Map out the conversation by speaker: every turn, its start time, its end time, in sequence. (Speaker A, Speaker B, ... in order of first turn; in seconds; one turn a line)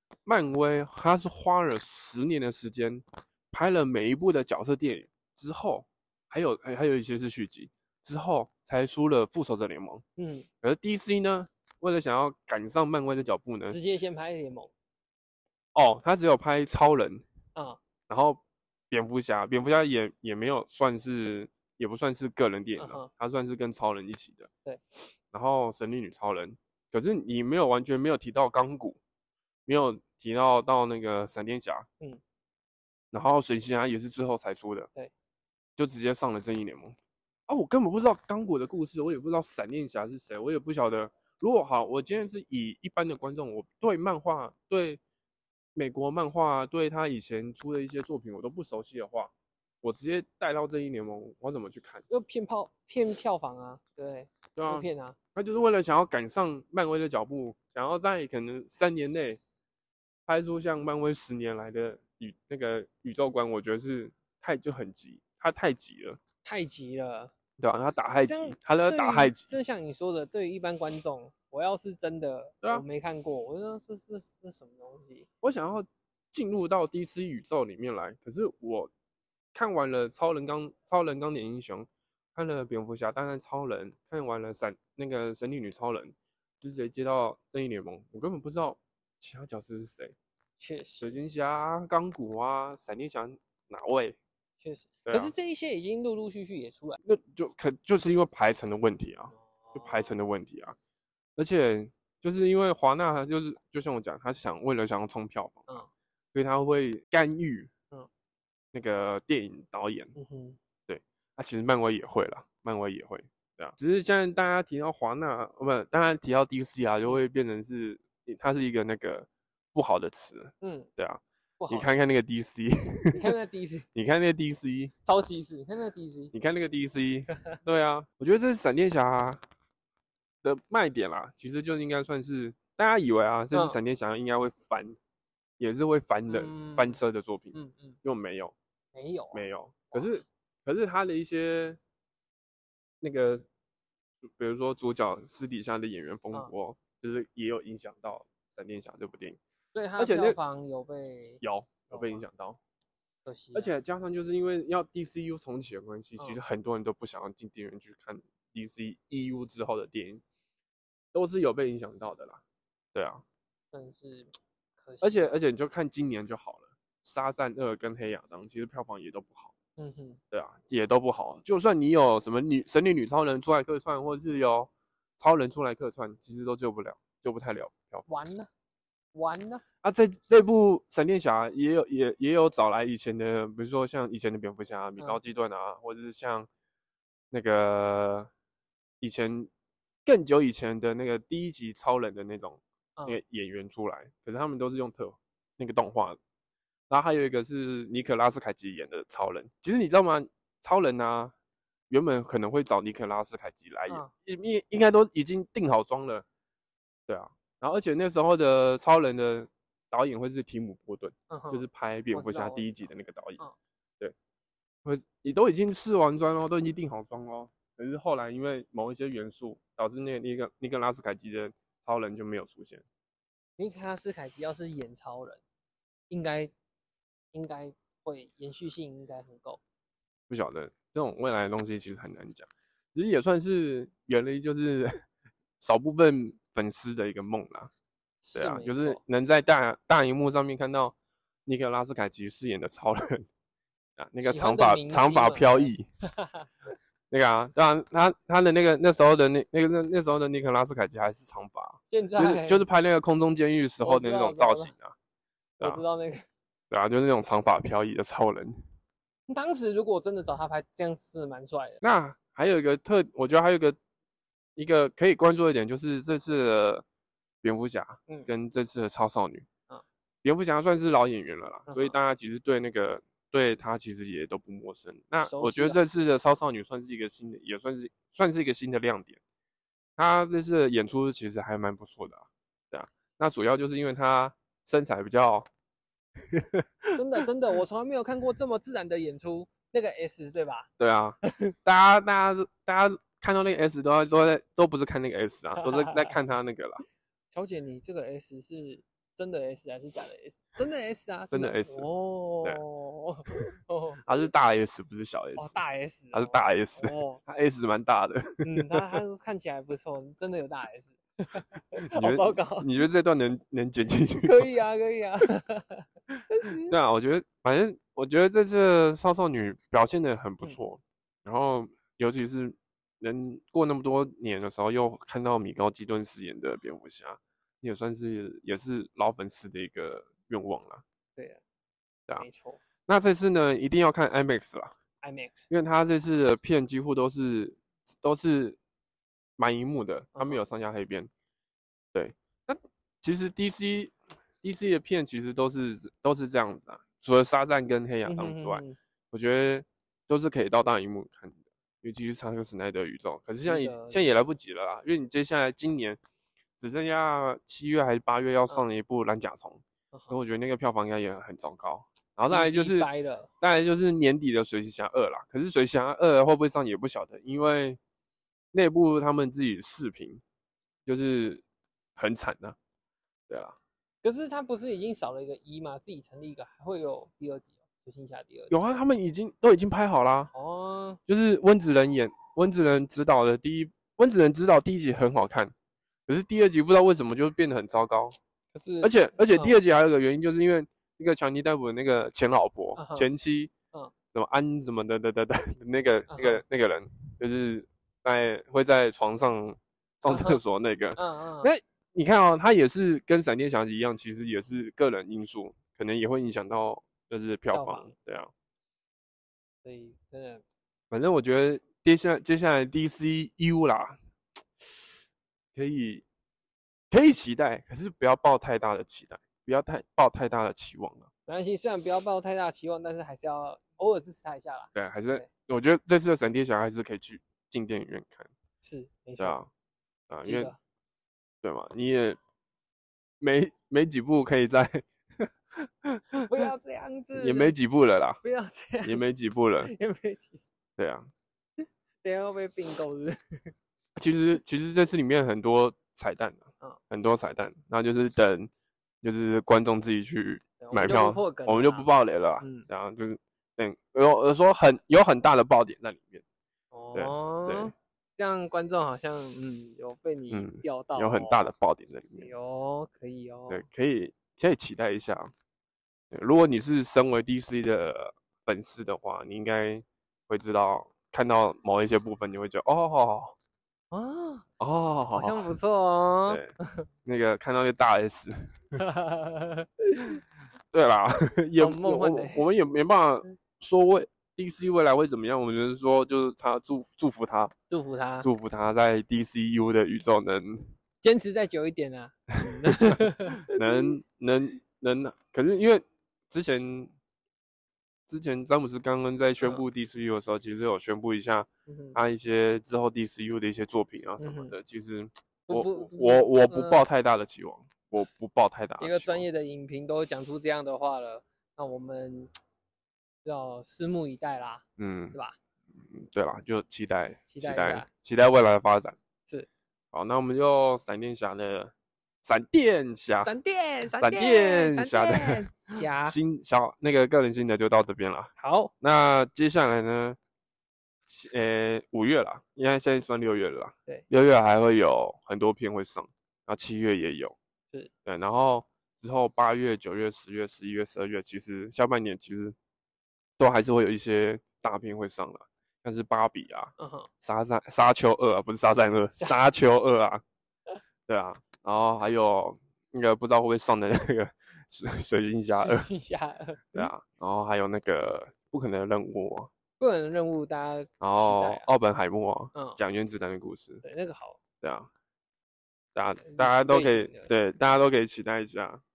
Speaker A: 0.2-10.0
Speaker B: 10.2-10.5
Speaker A: 10.6-13.8
Speaker B: 13.7-14.7
Speaker A: 15.7-17.2
Speaker B: 17.6-17.8
Speaker A: 18.1-24.5
Speaker B: 22.8-23.1
Speaker A: 25.3-29.0
Speaker A: 29.7-31.9
Speaker A: 33.1-34.9
Speaker A: 35.8-37.0
Speaker A: 37.5-45.0
Speaker A: 45.8-52.0
Speaker B: 52.1-55.2
Speaker A: 54.5-59.4
Speaker A: 60.3-66.2
Speaker B: 66.4-67.3
Speaker A: 67.6-69.5
Speaker B: 68.3-75.3
Speaker A: 75.4-78.9
Speaker A: 79.5-90.1
Speaker B: 90.6-91.2
Speaker A: 91.0-94.2
Speaker B: 94.6-97.0
Speaker A: 95.0-95.3
Speaker A: 97.0-100.8
Speaker B: 99.3-100.2
Speaker A: 101.3-105.6
Speaker A: 106.3-107.7
Speaker A: 108.7-110.1
Speaker B: 110.1-110.6
Speaker A: 110.9-123.3
Speaker B: 120.6-120.9
Speaker B: 121.6-121.9
Speaker B: 123.1-123.9
Speaker A: 123.9-124.9
Speaker B: 125.0-126.3
Speaker A: 126.3-129.4
Speaker A: 130.4-135.0
Speaker B: 133.5-133.8
Speaker A: 135.6-138.5
Speaker B: 136.3-137.0
Speaker B: 137.5-138.0
Speaker B: 138.9-140.2
Speaker A: 139.3-141.8
Speaker A: 143.0-143.4
Speaker A: 144.2-149.4
Speaker B: 149.7-152.2
Speaker A: 150.0-150.4
Speaker A: 151.4-152.6
Speaker B: 153.2-153.7
Speaker A: 153.5-160.2
Speaker A: 161.1-162.4
Speaker A: 162.9-163.2
Speaker B: 163.7-165.3
Speaker A: 165.0-169.6
Speaker B: 169.8-170.2
Speaker A: 170.3-178.1
Speaker B: 178.1-178.5
Speaker B: 179.1-179.6
Speaker A: 179.8-186.5
Speaker A: 187.3-188.3
Speaker A: 189.0-189.5
Speaker A: 190.0-196.2
Speaker A: 196.9-201.3
Speaker A: 201.9-206.2
Speaker A: 207.1-213.4
Speaker B: 211.3-212.9
Speaker A: 214.8-222.8
Speaker B: 223.6-225.4
Speaker B: 226.1-226.5
Speaker B: 227.3-229.6
Speaker A: 230.3-234.9
Speaker A: 235.6-237.7
Speaker B: 238.2-239.0
Speaker A: 238.3-240.9
Speaker A: 241.4-243.3
Speaker A: 244.0-245.8
Speaker B: 244.2-246.5
Speaker A: 247.1-254.9
Speaker B: 251.9-252.7
Speaker B: 253.8-254.7
Speaker B: 255.6-256.2
Speaker A: 256.7-258.6
Speaker B: 259.3-261.8
Speaker A: 261.8-263.8
Speaker A: 264.6-266.8
Speaker A: 267.4-269.5
Speaker A: 270.2-279.2
Speaker B: 271.7-271.9
Speaker B: 275.2-275.8
Speaker A: 280.0-285.4
Speaker A: 286.3-287.2
Speaker B: 286.9-290.7
Speaker A: 290.8-296.8
Speaker B: 295.6-295.9
Speaker B: 297.3-304.0
Speaker A: 301.3-301.9
Speaker A: 304.0-305.6
Speaker B: 305.4-307.2
Speaker A: 306.1-309.0
Speaker B: 308.4-312.7
Speaker A: 311.9-314.5
Speaker B: 314.2-316.7
Speaker A: 316.6-330.8
Speaker B: 331.1-331.4
Speaker B: 332.2-332.6
Speaker A: 332.9-334.8
Speaker B: 335.0-335.5
Speaker A: 335.5-338.6
Speaker A: 339.4-341.1
Speaker A: 341.9-356.0
Speaker B: 348.1-348.8
Speaker B: 353.4-354.1
Speaker A: 356.6-367.8
Speaker B: 359.9-360.2
Speaker B: 362.3-363.3
Speaker A: 368.5-370.2
Speaker A: 370.9-371.4
Speaker A: 371.9-372.6
Speaker A: 373.3-373.6
Speaker B: 374.0-378.5
Speaker A: 378.5-380.3
Speaker B: 380.3-381.0
Speaker A: 381.1-385.5
Speaker A: 386.1-388.1
Speaker B: 388.5-389.6
Speaker A: 388.8-393.5
Speaker B: 392.7-393.1
Speaker A: 394.1-408.3
Speaker B: 396.1-396.4
Speaker B: 400.1-400.4
Speaker B: 400.9-401.5
Speaker B: 407.5-407.9
Speaker B: 409.6-410.4
Speaker A: 410.9-414.0
Speaker A: 414.6-414.9
Speaker A: 415.5-416.0
Speaker A: 416.9-421.1
Speaker B: 421.3-425.3
Speaker A: 424.7-428.3
Speaker B: 428.6-429.4
Speaker A: 429.2-429.5
Speaker A: 430.1-430.5
Speaker B: 430.2-430.6
Speaker A: 431.4-432.2
Speaker A: 433.2-436.5
Speaker B: 436.3-437.6
Speaker A: 437.1-438.2
Speaker B: 438.2-439.0
Speaker A: 438.8-439.7
Speaker B: 439.6-440.5
Speaker A: 440.8-441.1
Speaker B: 441.6-443.5
Speaker A: 443.9-448.5
Speaker A: 449.0-456.2
Speaker B: 450.6-451.9
Speaker B: 452.4-452.7
Speaker B: 456.7-461.5
Speaker A: 456.9-457.7
Speaker A: 460.3-462.3
Speaker B: 462.1-463.6
Speaker A: 463.5-465.3
Speaker A: 466.1-473.3
Speaker B: 473.9-474.4
Speaker A: 474.6-475.5
Speaker B: 475.1-476.6
Speaker A: 477.0-478.8
Speaker B: 478.8-480.2
Speaker A: 480.7-487.5
Speaker B: 481.6-482.6
Speaker B: 487.7-488.3
Speaker A: 488.2-490.7
Speaker B: 491.0-493.9
Speaker A: 492.7-496.9
Speaker A: 498.1-509.2
Speaker B: 501.7-502.0
Speaker B: 504.2-504.6
Speaker B: 505.5-506.9
Speaker B: 508.8-512.3
Speaker B: 513.2-515.4
Speaker A: 514.8-515.2
Speaker A: 515.9-519.0
Speaker B: 517.3-517.9
Speaker A: 519.9-523.3
Speaker B: 523.1-526.2
Speaker A: 523.9-525.4
Speaker A: 526.0-530.2
Speaker B: 528.4-528.7
Speaker A: 531.1-537.4
Speaker A: 538.0-542.5
Speaker A: 543.4-550.2
Speaker B: 546.8-547.1
Speaker A: 551.1-555.9
Speaker B: 555.5-556.9
Speaker A: 556.7-559.5
Speaker B: 559.8-561.6
Speaker A: 561.0-563.8
Speaker B: 562.5-562.8
Speaker B: 563.8-564.4
Speaker A: 564.6-564.9
Speaker A: 565.9-568.8
Speaker B: 566.2-567.3